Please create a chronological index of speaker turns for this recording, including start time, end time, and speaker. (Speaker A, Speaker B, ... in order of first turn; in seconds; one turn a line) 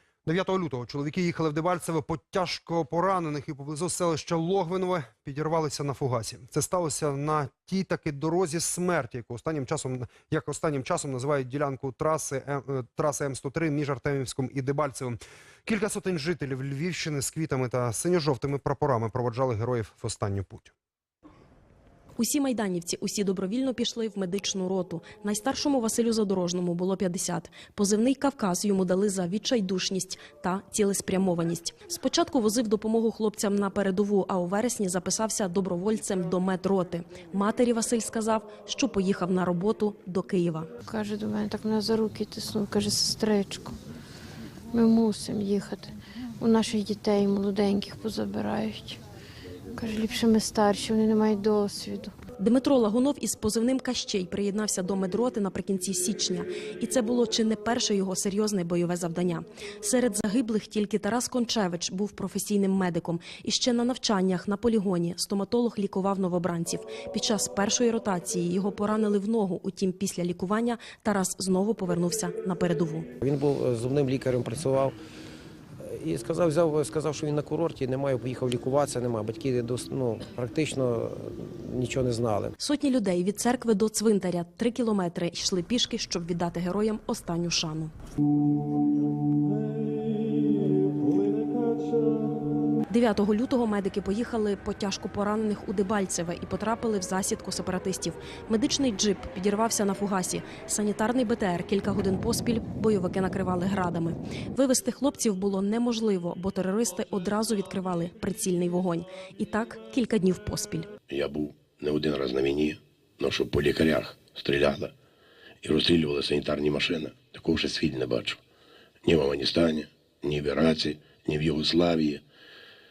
Speaker A: 0.2-20.7
Speaker B: 22.2-40.7
Speaker C: 40.8-43.8
Speaker C: 44.7-49.0
Speaker C: 49.7-52.1
Speaker B: 52.4-73.1
Speaker D: 73.2-75.0
Speaker D: 75.8-82.5
Speaker B: 82.6-87.9
Speaker D: 89.6-92.1
Speaker B: 92.9-110.9
Speaker E: 111.1-114.9
Speaker E: 115.6-118.4
Speaker E: 119.0-122.2